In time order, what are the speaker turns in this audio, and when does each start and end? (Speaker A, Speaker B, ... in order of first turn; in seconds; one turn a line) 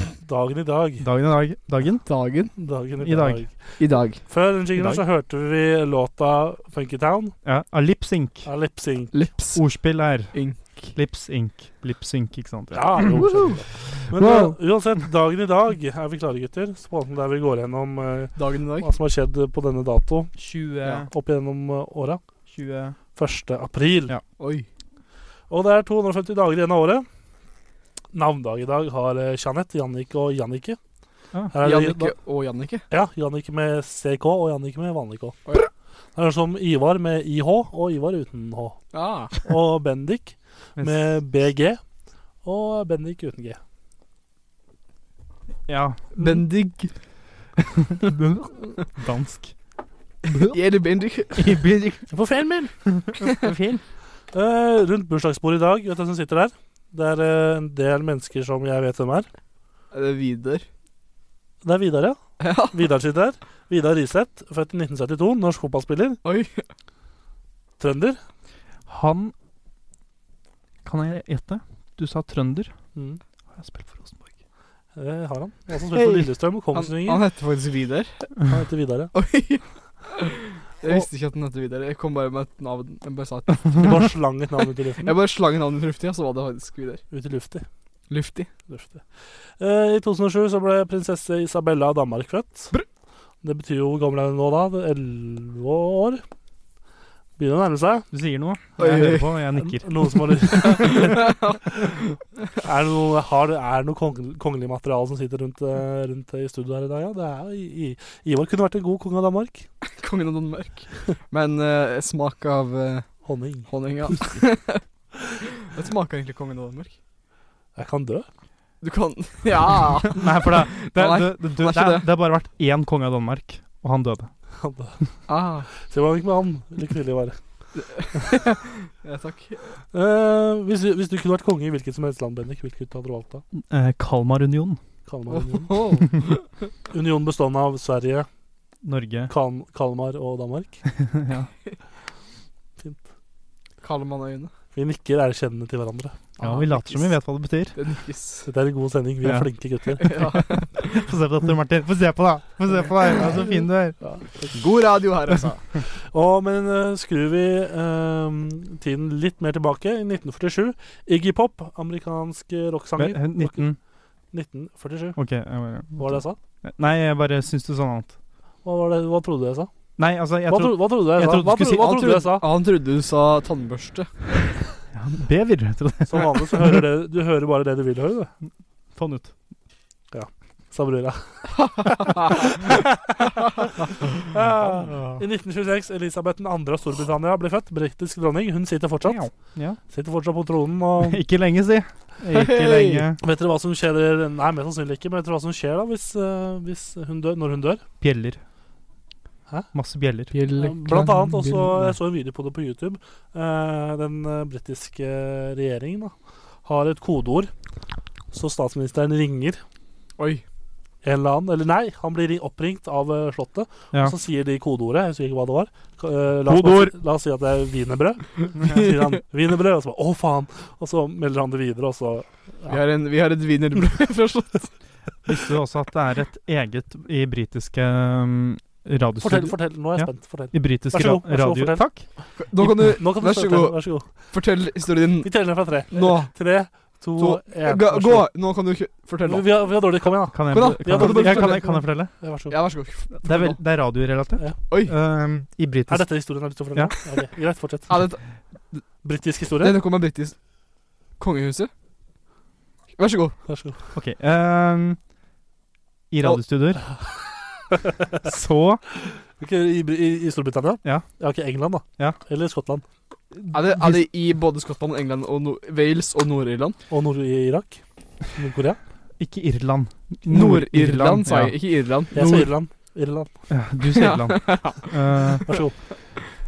Speaker A: 0.2-1.1
Speaker B: 1.0-2.1
Speaker C: 2.1-2.5
Speaker A: 2.6-7.3
Speaker B: 3.0-3.5
Speaker C: 3.8-4.2
Speaker B: 4.8-5.0
Speaker B: 7.5-8.5
Speaker A: 8.4-9.2
Speaker C: 9.1-9.6
Speaker B: 9.5-13.3
Speaker C: 10.3-10.8
Speaker A: 12.7-22.2
Speaker C: 13.1-13.6
Speaker B: 14.2-14.6
Speaker C: 18.4-18.9
Speaker B: 20.4-21.1
Speaker B: 22.5-23.0
Speaker A: 23.2-24.1
Speaker C: 24.4-24.7
Speaker A: 25.5-27.1
Speaker A: 28.1-30.8
Speaker A: 31.5-32.1
Speaker C: 31.6-32.9
Speaker A: 32.9-35.4
Speaker A: 36.2-41.8
Speaker C: 38.9-39.3
Speaker B: 40.8-41.1
Speaker A: 42.4-43.6
Speaker B: 45.7-46.4
Speaker C: 46.2-46.9
Speaker B: 47.6-49.5
Speaker B: 50.3-50.6
Speaker C: 50.5-51.6
Speaker B: 51.4-52.1
Speaker A: 52.1-52.7
Speaker B: 52.9-53.8
Speaker A: 54.3-59.3
Speaker C: 59.9-60.6
Speaker A: 61.6-66.2
Speaker C: 62.4-62.7
Speaker C: 66.2-66.7
Speaker A: 67.8-68.2
Speaker B: 68.9-69.3
Speaker B: 70.8-72.7
Speaker A: 73.0-73.2
Speaker B: 73.6-74.3
Speaker A: 75.0-77.2
Speaker C: 75.9-78.3
Speaker A: 78.5-79.1
Speaker C: 79.1-84.2
Speaker A: 83.8-85.1
Speaker C: 85.0-87.0
Speaker A: 87.1-87.7
Speaker C: 88.1-88.5
Speaker A: 88.7-89.0
Speaker A: 89.6-92.7
Speaker A: 93.4-96.2
Speaker A: 97.4-98.1
Speaker B: 98.1-101.0
Speaker C: 98.8-99.4
Speaker A: 99.6-101.3
Speaker C: 100.5-101.8
Speaker A: 102.6-109.7
Speaker C: 110.0-114.8
Speaker A: 113.2-113.7
Speaker C: 115.7-117.0
Speaker A: 117.8-118.3
Speaker C: 118.8-122.1
Speaker B: 120.2-124.3
Speaker A: 124.6-125.0
Speaker C: 125.3-125.7
Speaker A: 125.8-127.4
Speaker C: 127.8-129.8
Speaker A: 129.9-133.4
Speaker B: 133.6-134.8
Speaker A: 135.1-135.8
Speaker C: 135.3-136.5
Speaker A: 136.9-138.3
Speaker B: 138.8-139.3
Speaker A: 139.3-140.8
Speaker B: 141.0-141.5
Speaker A: 142.8-143.1
Speaker C: 143.8-144.5
Speaker A: 144.8-146.2
Speaker C: 146.4-147.2
Speaker B: 146.4-147.8
Speaker C: 147.8-148.5
Speaker A: 148.5-150.3
Speaker B: 149.2-149.5
Speaker C: 150.0-150.8
Speaker B: 150.7-154.0
Speaker A: 153.5-154.6
Speaker C: 154.5-155.6
Speaker A: 156.1-163.7
Speaker B: 163.0-163.8
Speaker A: 164.3-165.2
Speaker B: 165.2-168.1
Speaker A: 166.0-166.4
Speaker A: 168.6-169.7
Speaker B: 170.0-172.2
Speaker A: 170.5-172.5
Speaker C: 171.7-174.1
Speaker B: 174.9-176.6
Speaker A: 176.1-178.3
Speaker B: 179.0-179.3
Speaker A: 180.1-181.5
Speaker C: 181.7-182.3
Speaker A: 184.3-191.2
Speaker B: 184.6-185.2
Speaker B: 189.1-189.8
Speaker B: 191.1-193.2
Speaker C: 192.3-193.1
Speaker A: 193.2-197.8
Speaker B: 198.0-198.4
Speaker B: 199.7-200.3
Speaker C: 200.3-201.9
Speaker A: 200.6-206.1
Speaker A: 206.7-207.5
Speaker A: 208.3-209.6
Speaker C: 210.2-210.4
Speaker A: 211.0-222.8
Speaker B: 216.5-216.9
Speaker C: 222.7-224.7
Speaker B: 225.3-232.1
Speaker A: 229.2-234.1
Speaker C: 232.4-236.5
Speaker A: 235.2-238.3
Speaker C: 237.2-239.7
Speaker A: 239.2-242.6
Speaker B: 240.3-242.2
Speaker C: 240.5-241.8
Speaker C: 242.5-243.6
Speaker B: 243.1-246.9
Speaker C: 244.7-244.9
Speaker A: 245.9-248.1
Speaker C: 247.9-248.2
Speaker A: 249.0-249.8
Speaker C: 249.6-250.4
Speaker C: 251.2-251.7
Speaker C: 253.0-253.4
Speaker A: 253.5-253.8
Speaker B: 253.9-255.0
Speaker B: 256.1-256.9
Speaker A: 256.8-257.1
Speaker B: 258.2-258.8
Speaker A: 259.4-262.8
Speaker B: 263.4-264.0
Speaker C: 263.5-266.8
Speaker A: 266.9-268.8
Speaker B: 269.2-271.6
Speaker C: 270.3-272.5
Speaker A: 272.1-273.3
Speaker B: 273.5-275.6
Speaker C: 273.9-275.4
Speaker A: 275.5-275.8